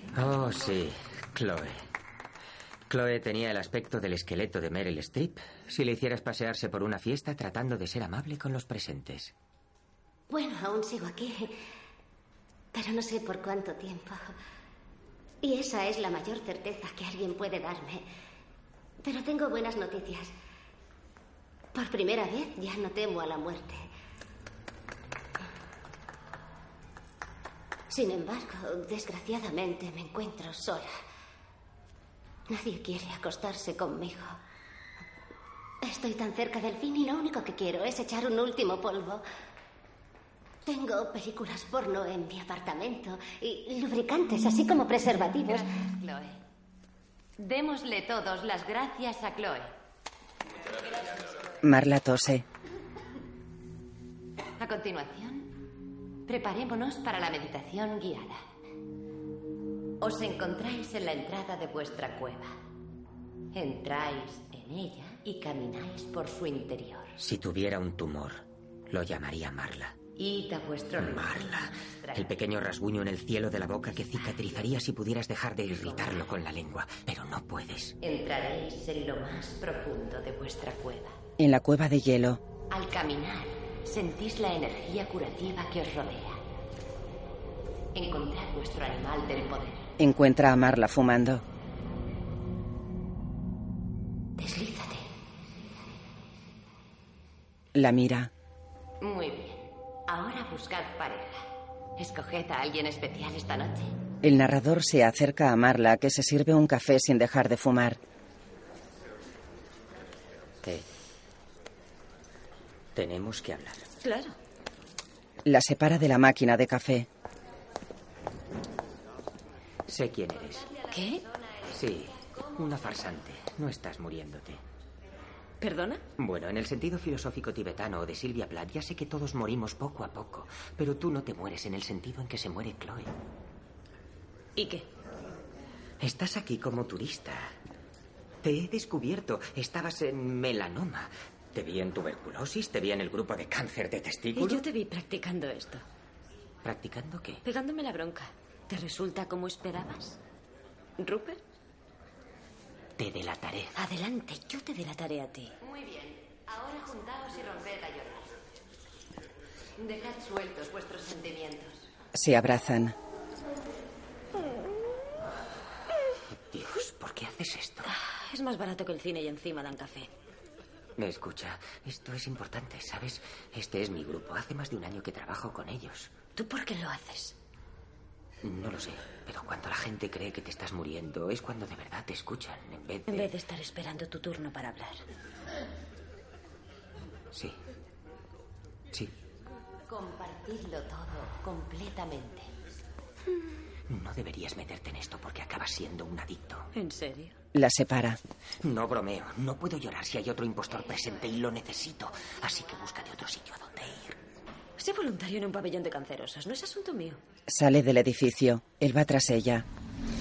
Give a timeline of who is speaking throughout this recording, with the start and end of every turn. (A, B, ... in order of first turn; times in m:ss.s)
0:00.1-0:01.8 A
0:02.9-0:09.3 A
0:10.3-0:11.6 B
0:12.7-0:14.3 B
0:15.4-0:18.1 B
0:19.0-0:20.3 B
0:21.7-0:23.9 B
0:27.9-0:30.9 B
0:32.5-0:34.4 B
0:35.8-0:39.2 B
0:40.6-0:45.7 B
0:45.4-0:46.4 C
0:47.4-0:49.7 C
0:51.6-0:52.4 D
0:54.6-0:55.5 C
0:56.3-0:58.4 C
1:00.0-1:02.6 C
1:03.5-1:07.2 C
1:07.2-1:10.0 A
1:10.2-1:12.4 C
1:11.0-1:18.0 A
1:15.8-1:16.2 C
1:18.0-1:21.2 C
1:21.4-1:22.4 D
1:22.7-1:26.4 C
1:27.9-1:29.9 C
1:30.0-1:31.4 D
1:34.4-1:35.0 C
1:37.8-1:38.3 D
1:39.0-1:41.5 C
1:42.0-1:43.9 C
1:44.2-1:48.0 D
1:53.0-1:53.9 A
1:54.0-1:54.4 E
1:55.4-1:57.1 D
1:59.9-2:00.7 A
2:00.9-2:01.2 E
2:01.7-2:04.6 A
2:05.6-2:06.0 E
2:06.2-2:13.1 A
2:14.6-2:14.9 E
2:16.0-2:17.5 A
2:18.4-2:24.6 A
2:24.4-2:25.8 E
2:26.6-2:27.4 A
2:27.4-2:30.2 E
2:31.0-2:31.4 E
2:33.0-2:33.8 A
2:33.8-2:35.5 E
2:35.6-2:38.4 C
2:39.8-2:41.9 C
2:42.1-2:43.0 D
2:46.5-2:47.9 A
2:47.8-2:50.1 E
2:51.0-2:56.2 A
2:56.4-2:57.4 E
2:58.4-3:03.3 A
3:03.1-3:05.0 E
3:07.3-3:07.6 A
3:09.9-3:12.5 C
3:13.9-3:16.7 A
3:16.7-3:17.4 E
3:17.5-3:18.2 D
3:18.6-3:24.2 A
3:24.8-3:27.2 E
3:27.5-3:29.7 D